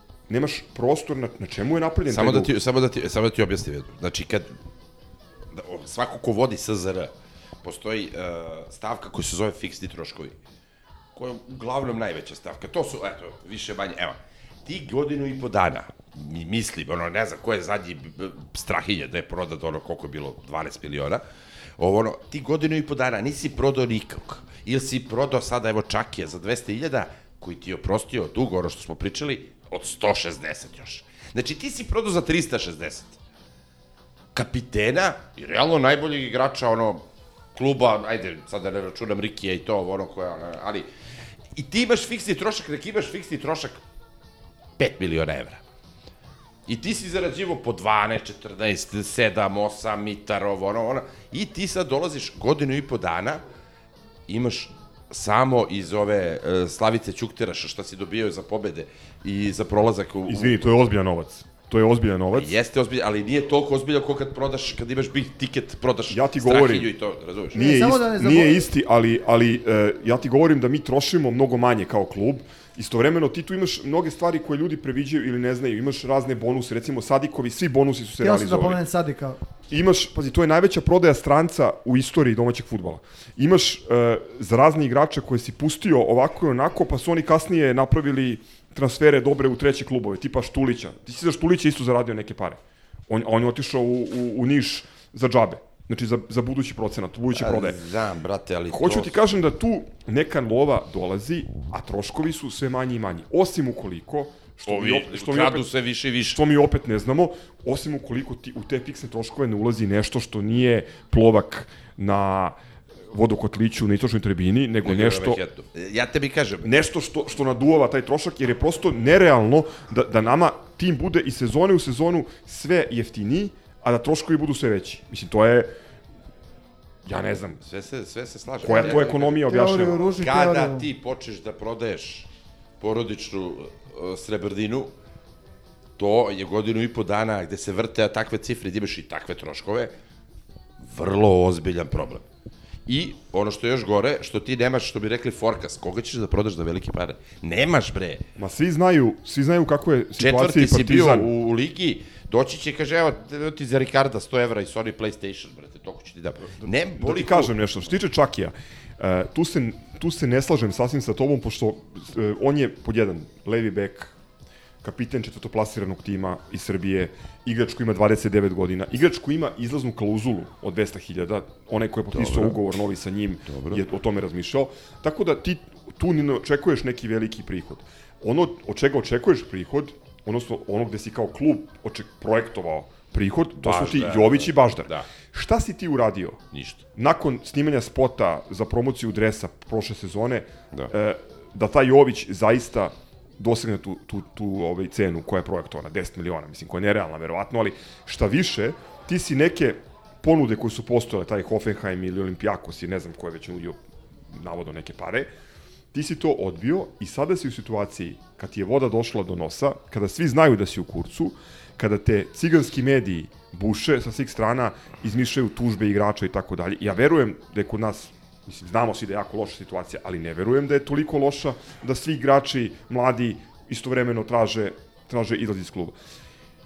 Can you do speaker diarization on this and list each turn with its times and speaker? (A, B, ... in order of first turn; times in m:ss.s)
0:00.3-0:02.5 A
0:02.1-0:04.6 B
0:05.5-0:10.4 B
0:11.2-0:21.2 B
0:21.8-0:33.2 B
0:34.3-0:40.9 B
0:41.5-0:43.8 B
0:44.8-0:45.6 B
0:46.7-0:53.4 B
0:54.3-1:00.7 B
1:00.3-1:02.6 A
1:02.3-1:07.8 B
1:06.1-1:06.9 A
1:07.5-1:18.8 A
1:07.6-1:08.6 C
1:18.2-1:19.4 C
1:19.7-1:37.8 A
1:37.3-1:39.1 B
1:38.7-1:45.7 A
1:44.7-1:46.4 B
1:46.3-1:52.6 A
1:53.1-1:55.4 A
1:54.8-1:56.7 B
1:56.6-2:05.7 A
2:07.0-2:07.6 A
2:07.6-2:12.3 B
2:08.6-2:10.0 A
2:09.4-2:10.9 C
2:12.8-2:14.9 B
2:16.0-2:19.9 B
2:20.8-2:22.2 B
2:22.9-2:28.2 B
2:28.4-2:31.3 A
2:30.2-2:37.6 B
2:36.6-2:44.1 A
2:44.8-3:06.4 A
2:52.1-2:52.6 B
2:53.5-2:53.8 B
3:03.6-3:05.1 B
3:06.5-3:06.8 B
3:07.0-3:23.8 A
3:24.3-3:25.3 A
3:25.9-3:46.0 A